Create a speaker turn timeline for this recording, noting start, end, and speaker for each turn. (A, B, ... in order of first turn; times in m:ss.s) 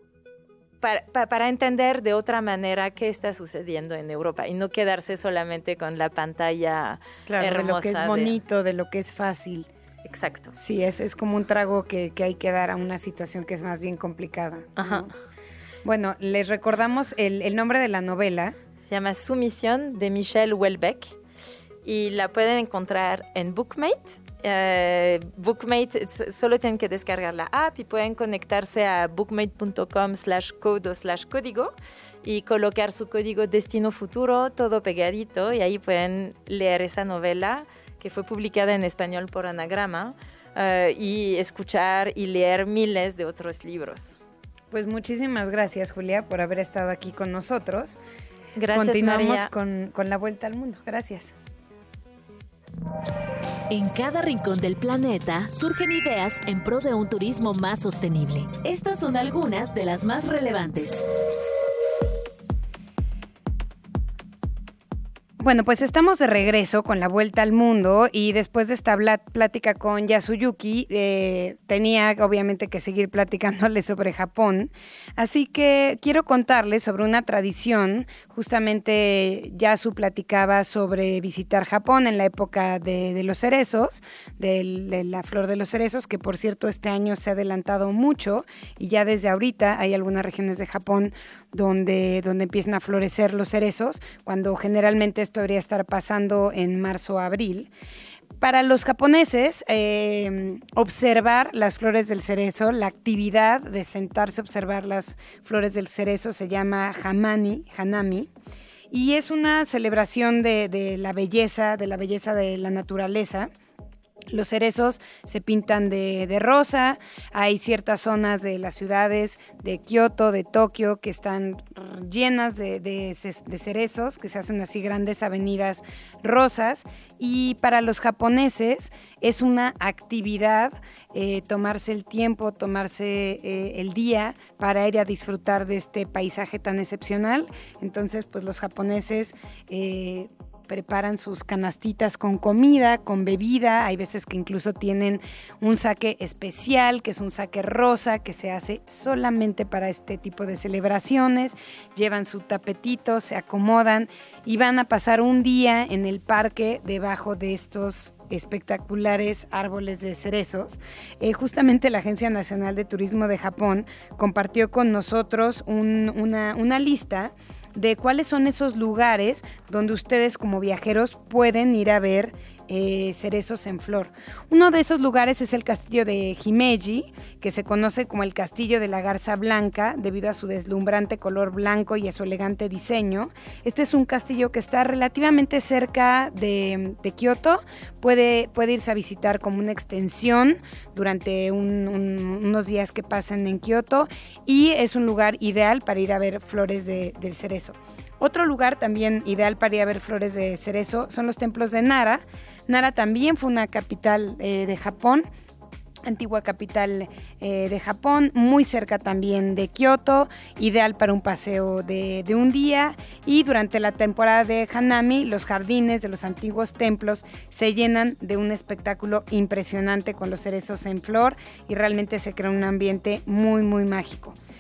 0:00.8-0:08.4 A
0:07.3-0:09.7 B
0:10.0-0:10.5 A
0:10.6-0:15.1 B
0:14.8-0:15.1 A
0:15.8-0:18.6 B
0:18.8-0:21.1 A
0:21.8-0:31.7 A
0:32.2-0:44.2 A
0:44.7-0:48.0 B
0:48.6-0:49.5 A
0:48.7-0:51.3 B
0:53.7-1:01.0 C
1:05.4-1:37.7 B
1:38.4-1:48.3 B
1:48.9-1:53.5 B
1:54.3-3:25.2 B
3:26.1-3:44.4 B